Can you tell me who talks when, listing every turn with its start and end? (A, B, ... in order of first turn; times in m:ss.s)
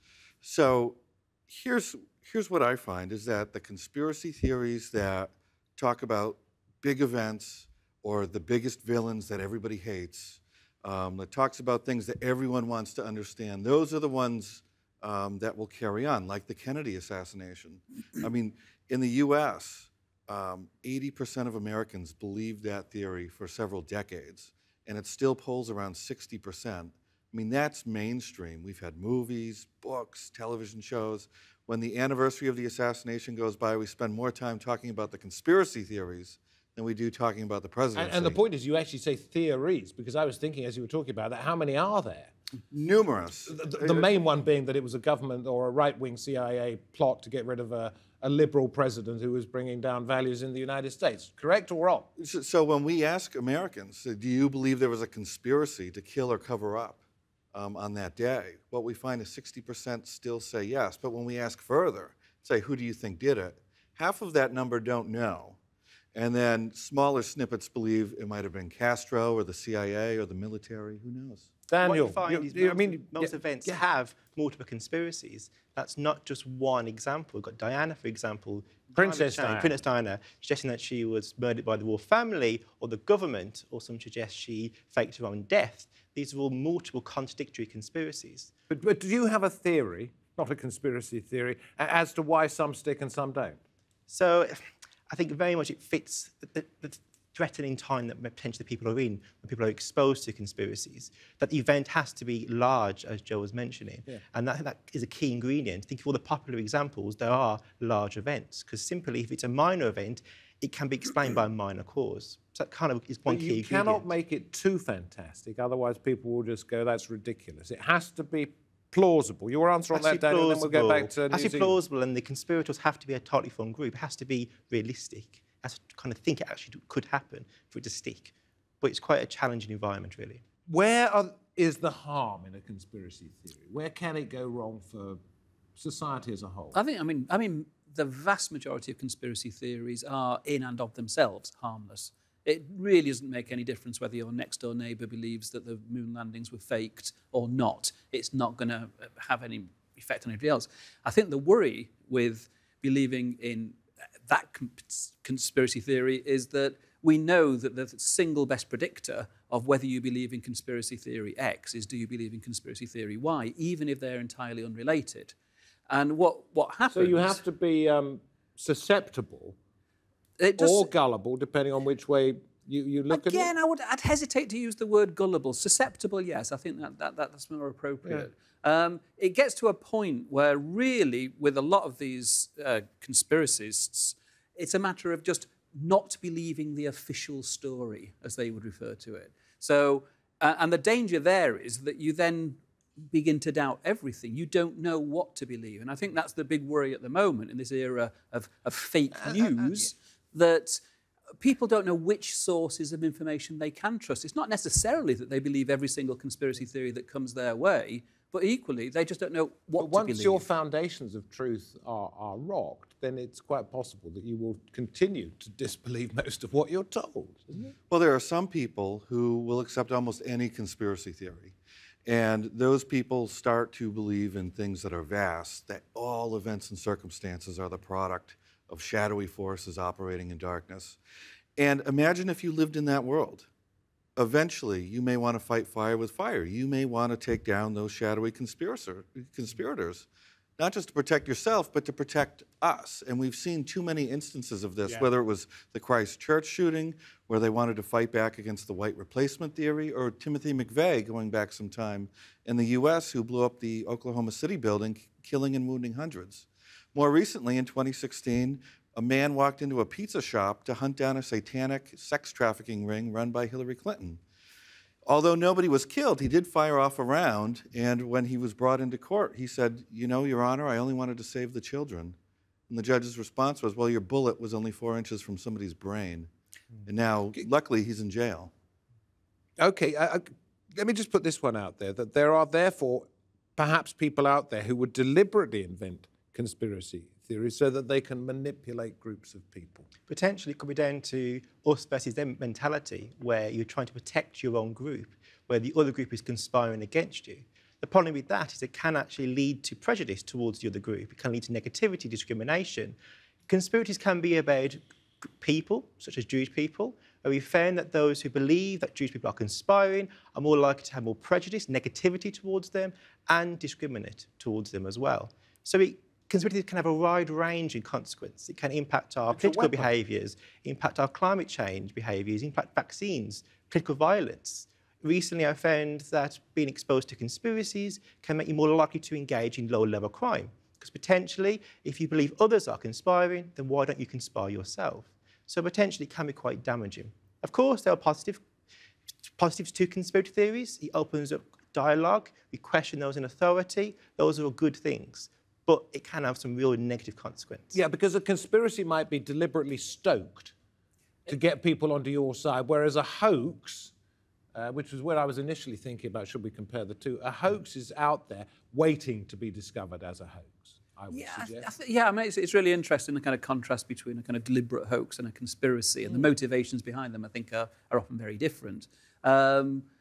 0:00.4-0:38.4 A
0:38.0-0:42.3 B
0:42.7-0:44.1 A
0:43.5-0:52.1 B
0:52.2-0:57.0 A
0:57.5-1:05.6 A
1:06.1-1:11.5 A
1:11.7-1:13.8 B
1:11.8-1:28.5 C
1:18.9-1:19.8 B
1:28.7-1:33.6 B
1:34.1-1:54.1 C
1:53.3-2:01.8 B
1:59.9-2:10.4 C
2:10.7-2:15.2 B
2:15.8-2:16.8 B
2:16.7-2:45.3 D
2:45.9-2:47.4 D
2:46.9-2:49.6 B
2:50.4-2:50.9 D
2:50.6-2:53.5 B
2:53.1-3:20.8 D
3:19.2-3:19.9 B
3:21.4-3:30.5 D
3:29.8-3:37.7 B
3:37.9-3:51.0 A
3:51.6-3:53.5 A
3:54.2-4:00.1 A
4:00.6-4:24.2 A
4:25.0-4:32.2 A
4:32.7-4:36.3 A
4:36.9-4:38.5 A
4:39.6-4:49.9 B
4:50.1-5:03.0 C
5:03.5-5:38.5 C
5:19.3-5:19.9 B
5:39.2-5:47.8 C
5:47.7-5:50.5 B
5:51.3-5:53.9 B
5:54.5-6:01.7 B
6:01.1-6:09.9 D